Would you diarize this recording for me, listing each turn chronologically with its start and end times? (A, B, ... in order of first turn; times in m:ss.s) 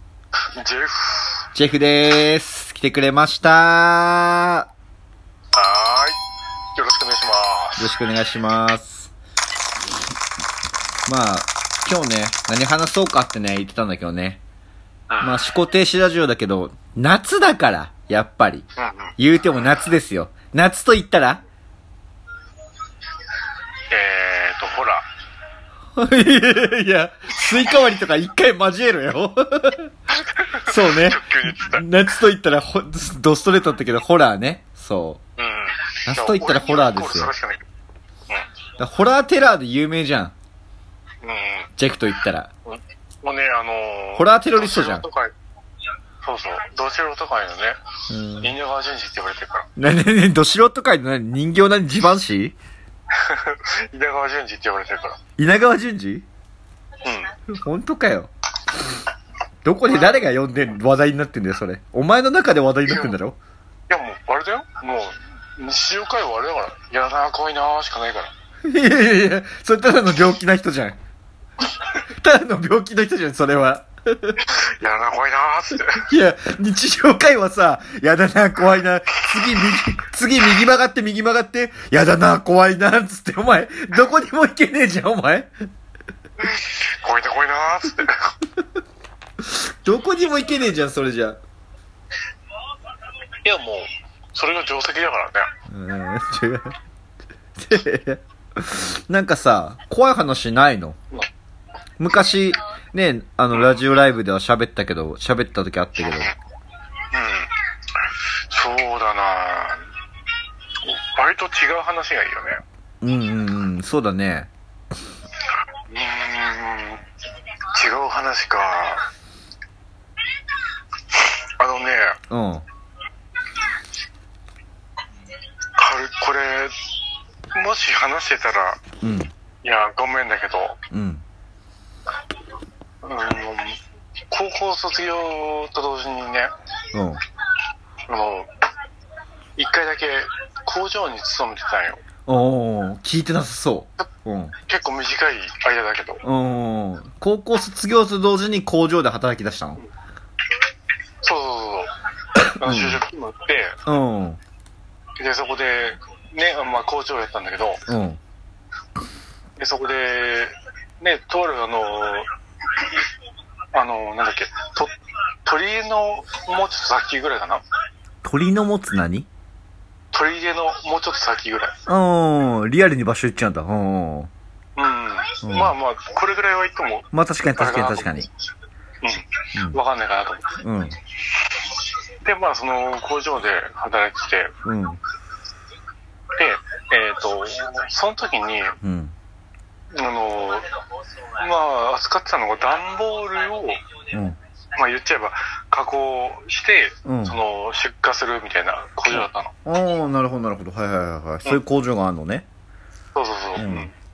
0:00.6-0:01.4 A
0:01.5-0:04.7 B
0:05.5-0:06.2 A
0:06.8-0:07.9 A
0:07.8-0:09.1 B
0:11.0-0:14.4 B
0:15.1-0:15.5 A
0:15.2-0:18.6 B
0:18.8-0:19.1 A
0:19.2-0:21.4 B
0:23.9-0:25.0 A
0:26.0-0:29.9 B
0:30.2-0:31.8 A
0:30.7-0:35.2 B
0:35.4-0:37.6 A
0:36.0-0:37.3 B
0:38.8-0:40.3 B
0:41.2-0:41.7 A
0:41.8-0:42.5 B
0:42.7-0:45.3 A
0:44.2-0:45.0 B
0:46.2-0:47.8 A
0:48.1-0:48.5 B
0:48.4-0:49.7 A
0:49.8-0:52.6 B
0:53.1-0:55.2 A
0:55.4-0:56.2 B
0:57.0-0:57.3 A
0:57.5-0:58.3 B
0:59.6-1:03.4 B
0:59.9-1:00.2 A
1:02.9-1:03.1 A
1:03.9-1:08.3 A
1:08.6-1:11.0 B
1:12.1-1:14.4 B
1:14.4-1:16.0 A
1:15.9-1:25.5 B
1:26.4-1:28.3 A
1:29.5-1:31.4 B
1:33.4-1:35.5 A
1:35.7-1:36.8 B
1:37.6-1:41.0 B
1:42.0-1:46.3 B
1:46.0-1:46.3 A
1:47.1-1:47.5 A
1:48.5-1:49.9 A
1:50.8-1:52.6 A
1:53.0-1:54.5 B
1:55.9-1:57.0 A
1:57.7-1:59.1 A
2:01.1-2:02.2 A
2:02.3-2:02.6 B
2:05.8-2:06.7 A
2:07.5-2:08.8 A
2:09.0-2:09.3 B
2:09.6-2:10.8 A
2:10.9-2:11.2 B
2:13.0-2:16.5 A
2:16.9-2:17.2 B
2:18.1-2:18.5 A
2:19.6-2:22.0 A
2:22.3-2:24.6 B
2:24.7-2:26.2 A
2:26.2-2:29.8 B
2:31.2-2:31.9 A
2:32.6-2:33.8 A
2:32.6-2:33.0 B
2:33.8-2:34.4 B
2:35.2-2:37.8 A
2:37.9-2:38.2 B
2:39.6-2:43.0 A
2:43.7-2:44.9 A
2:45.4-2:47.6 A
2:48.2-2:49.3 B
2:50.1-2:51.8 A
2:51.9-2:54.3 B
2:54.8-2:58.3 A
2:55.4-2:55.7 B
2:57.1-2:58.3 B
2:59.0-3:00.6 A
3:00.6-3:01.0 B
3:02.2-3:04.5 A
3:04.6-3:05.0 B
3:06.4-3:08.8 A
3:08.8-3:09.2 B
3:09.9-3:10.7 A
3:11.4-3:13.8 A
3:14.1-3:14.4 B
3:14.8-3:19.5 A
3:17.1-3:17.4 B
3:19.1-3:22.5 B
3:23.1-3:23.9 A
3:23.6-3:23.9 B